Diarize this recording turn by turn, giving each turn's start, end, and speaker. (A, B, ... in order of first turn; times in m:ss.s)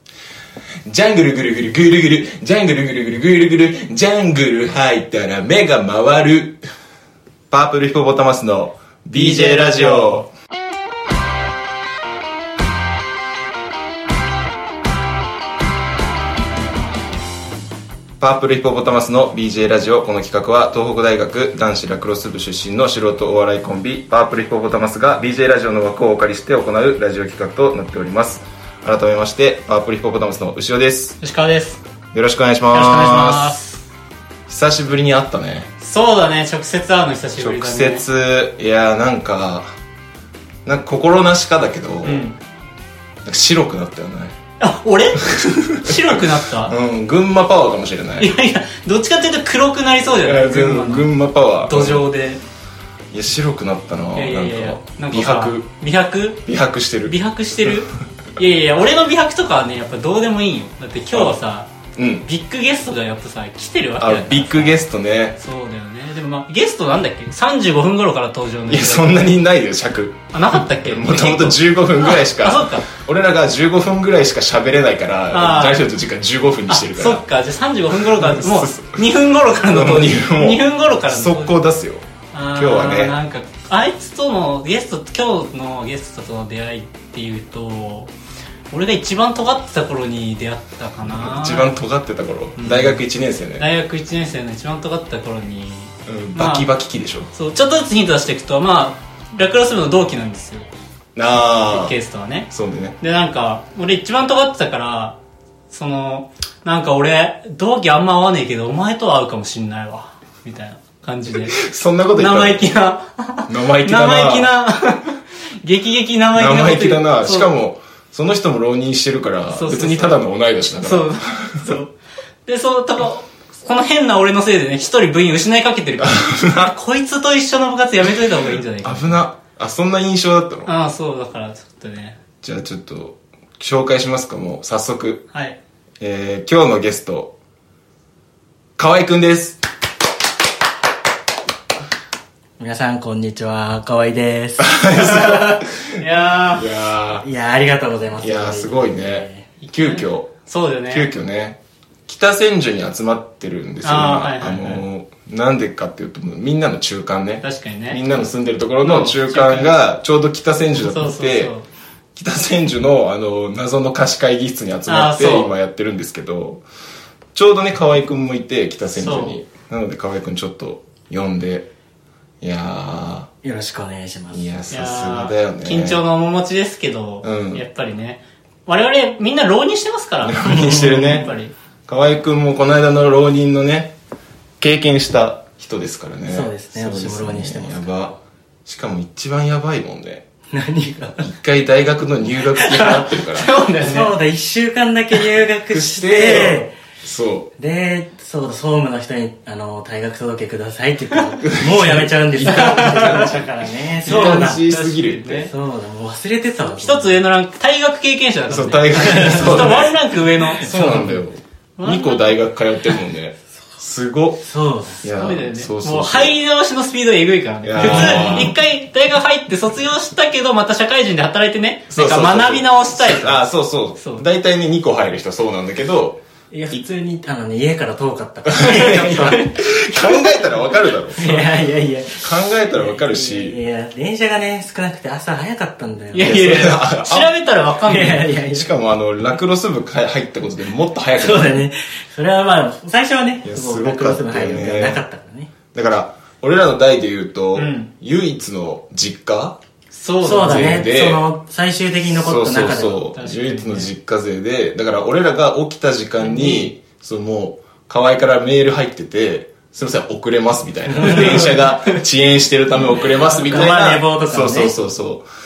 0:00.8-0:06.6 A
0:07.5-0:10.3 A
0:09.1-0:10.2 B
0:18.2-0:31.2 A
0:31.2-0:31.8 B
0:32.1-0:33.6 A
0:32.7-0:33.8 B
0:34.5-0:35.7 A
0:35.8-0:38.0 B
0:37.3-0:39.7 A
0:40.6-0:42.3 A
0:42.0-0:42.4 B
0:43.2-0:44.3 A
0:44.6-0:46.7 B
0:45.4-0:48.3 A
0:48.2-0:51.1 B
0:50.2-0:52.1 A
0:51.6-0:52.4 B
0:53.1-0:55.7 A
0:54.1-0:56.4 B
0:56.4-0:57.2 A
0:57.0-1:01.7 B
1:01.1-1:01.4 A
1:02.0-1:02.3 A
1:02.2-1:04.8 B
1:04.0-1:05.4 A
1:05.4-1:09.2 B
1:08.7-1:17.2 A
1:10.3-1:12.9 B
1:15.3-1:15.8 B
1:16.7-1:21.6 B
1:17.9-1:19.0 A
1:19.6-1:23.2 A
1:22.3-1:28.1 B
1:28.7-1:31.8 B
1:31.0-1:33.7 A
1:32.6-1:33.0 B
1:33.6-1:36.7 B
1:36.1-1:37.3 A
1:37.3-1:40.7 B
1:41.2-1:41.9 A
1:41.2-1:42.5 B
1:42.5-1:43.0 A
1:43.0-1:45.2 B
1:45.7-1:57.5 B
1:51.3-1:52.7 A
1:53.5-1:54.5 A
1:56.3-2:01.7 A
1:59.5-2:00.2 B
2:00.7-2:01.9 B
2:02.4-2:09.2 B
2:06.0-2:06.7 A
2:08.8-2:10.7 A
2:10.6-2:12.2 B
2:12.4-2:15.2 A
2:15.3-2:15.6 B
2:16.0-2:17.3 A
2:18.8-2:19.6 A
2:22.6-2:24.9 C
2:24.6-2:26.0 A
2:25.2-2:26.8 B
2:26.5-2:27.2 A
2:27.2-2:29.5 C
2:28.2-2:30.3 A
2:29.6-2:31.1 B
2:30.9-2:41.5 A
2:33.8-2:34.8 B
2:37.4-2:38.0 B
2:38.8-2:39.7 B
2:40.7-2:41.6 B
2:42.2-2:46.6 A
2:44.9-2:45.5 B
2:47.3-2:51.7 A
2:49.0-2:49.4 B
2:52.4-2:53.3 A
2:53.4-2:54.6 C
2:54.3-2:56.0 A
2:54.7-3:01.5 B
2:57.2-2:57.6 A
3:00.2-3:01.3 A
3:00.4-3:01.3 C
3:01.9-3:03.9 A
3:04.6-3:08.1 A
3:06.3-3:08.1 C
3:08.6-3:10.2 A
3:10.5-3:11.2 C
3:11.2-3:13.5 A
3:12.6-3:14.2 B
3:13.8-3:16.7 C
3:15.7-3:17.5 A
3:17.6-3:24.6 C
3:21.4-3:25.5 A
3:22.6-3:23.3 B
3:24.0-3:25.5 B
3:25.4-3:27.2 C
3:26.6-3:31.1 B
3:28.5-3:29.9 A
3:29.0-3:29.7 C
3:30.6-3:34.4 A
3:30.6-3:31.2 C
3:31.8-3:32.4 B
3:34.4-3:35.1 C
3:35.0-3:36.3 A
3:35.1-3:43.4 B
3:37.6-3:38.5 A
3:37.8-3:38.5 C
3:41.9-3:46.2 A
3:44.0-3:44.2 B
3:46.5-3:49.6 C
3:48.4-3:51.6 A
3:48.7-3:49.6 B
3:51.1-3:56.5 C
3:52.2-3:53.6 A
3:56.1-3:58.4 B
3:56.2-3:57.3 A
3:57.8-3:58.7 C
3:58.5-4:01.6 A
4:01.2-4:05.5 C
4:03.4-4:05.0 A
4:05.7-4:09.6 A
4:07.5-4:07.9 B
4:09.9-4:10.8 B
4:10.2-4:13.0 C
4:10.4-4:11.2 A
4:12.2-4:25.2 A
4:13.1-4:13.9 B
4:16.2-4:16.7 B
4:20.9-4:21.4 C
4:23.3-4:24.9 C